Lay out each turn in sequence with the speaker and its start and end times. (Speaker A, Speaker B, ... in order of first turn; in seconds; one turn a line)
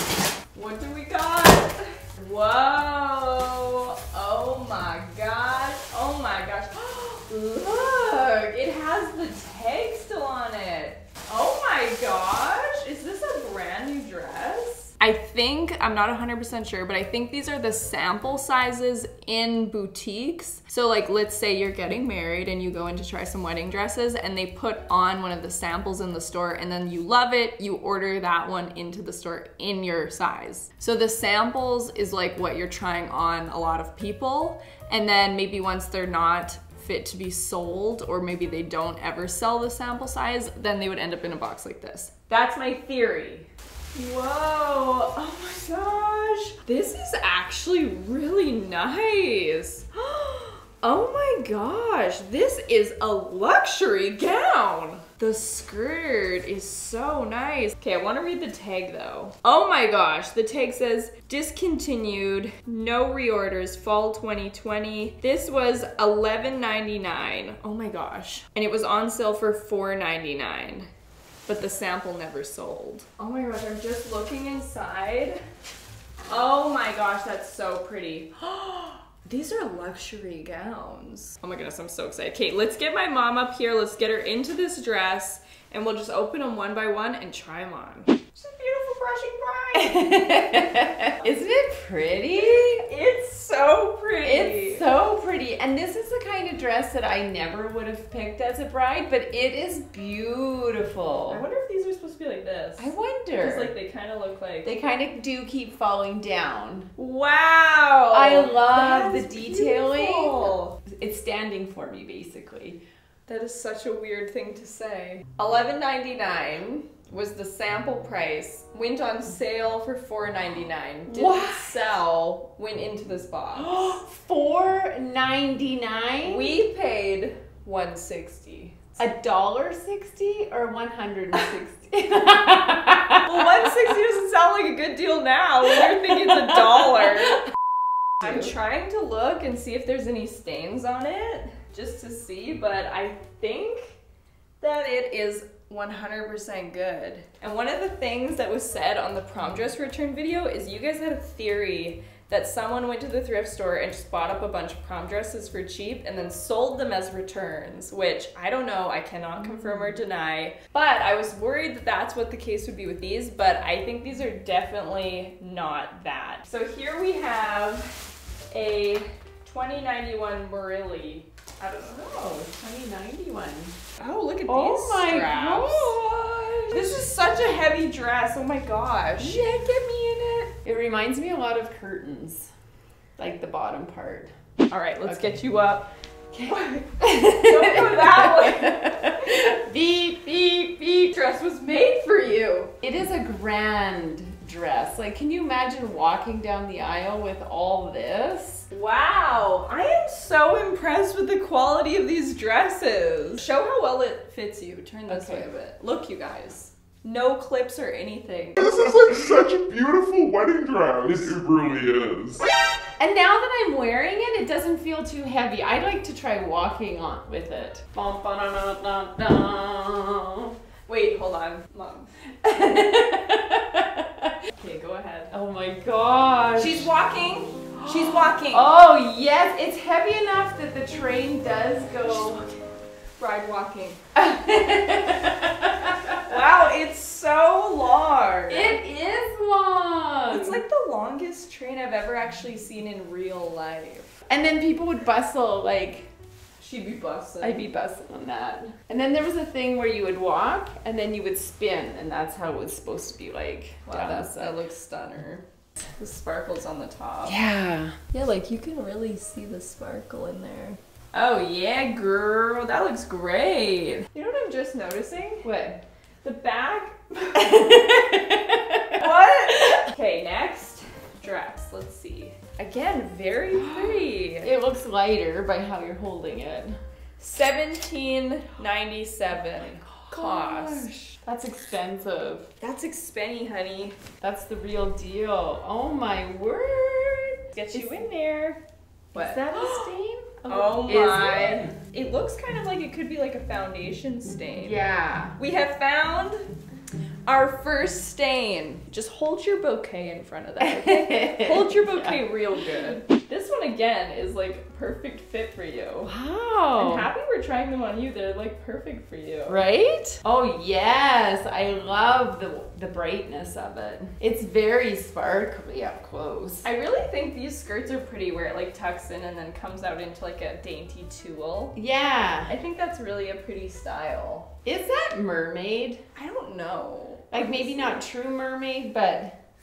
Speaker A: 0.5-70.9
Speaker A: 71.5-75.4
Speaker A: 76.3-90.3
Speaker B: 89.8-92.8
Speaker A: 92.3-94.8
Speaker B: 94.2-101.4
Speaker A: 101.3-104.7
Speaker B: 102.8-103.7
Speaker B: 104.7-106.9
Speaker A: 107.0-110.8
Speaker B: 108.1-112.8
Speaker A: 113.3-124.0
Speaker B: 121.1-122.0
Speaker B: 123.5-126.6
Speaker A: 126.2-129.0
Speaker B: 129.0-133.7
Speaker A: 133.2-137.4
Speaker A: 138.2-144.0
Speaker A: 144.6-172.1
Speaker B: 159.4-160.0
Speaker B: 171.8-173.8
Speaker A: 174.0-180.6
Speaker B: 174.5-176.0
Speaker B: 176.7-177.1
Speaker B: 179.2-179.5
Speaker B: 180.6-182.5
Speaker B: 183.2-184.3
Speaker A: 184.7-185.9
Speaker B: 186.3-191.1
Speaker A: 186.4-189.4
Speaker A: 191.1-192.7
Speaker B: 192.8-198.7
Speaker A: 198.7-208.6
Speaker B: 205.1-205.5
Speaker C: 208.6-212.5
Speaker B: 213.0-220.6
Speaker A: 220.9-222.1
Speaker B: 222.4-224.4
Speaker A: 224.5-225.3
Speaker B: 225.3-226.9
Speaker A: 226.6-228.7
Speaker B: 227.8-232.5
Speaker A: 232.1-232.6
Speaker A: 233.2-234.0
Speaker B: 234.2-236.2
Speaker A: 236.2-238.8
Speaker B: 238.5-240.6
Speaker A: 240.3-244.2
Speaker B: 244.3-246.1
Speaker A: 246.6-247.7
Speaker B: 247.4-254.5
Speaker A: 253.9-255.4
Speaker A: 256.0-257.4
Speaker B: 257.3-258.0
Speaker A: 258.1-265.5
Speaker B: 265.4-265.8
Speaker A: 266.2-268.1
Speaker B: 267.4-269.0
Speaker A: 268.9-274.5
Speaker B: 273.5-276.8
Speaker A: 277.2-280.9
Speaker B: 280.0-282.5
Speaker A: 282.6-284.0
Speaker B: 284.2-288.0
Speaker A: 287.5-288.6
Speaker A: 289.1-289.9
Speaker B: 289.1-291.7
Speaker A: 290.5-294.8
Speaker B: 294.6-295.4
Speaker A: 295.4-296.5
Speaker A: 297.3-306.1
Speaker B: 300.6-302.2
Speaker B: 306.1-307.1
Speaker A: 306.8-309.6
Speaker B: 309.5-316.6
Speaker A: 316.6-321.8
Speaker B: 321.8-322.5
Speaker A: 322.5-324.6
Speaker B: 324.6-326.0
Speaker A: 326.1-328.0
Speaker B: 327.3-329.4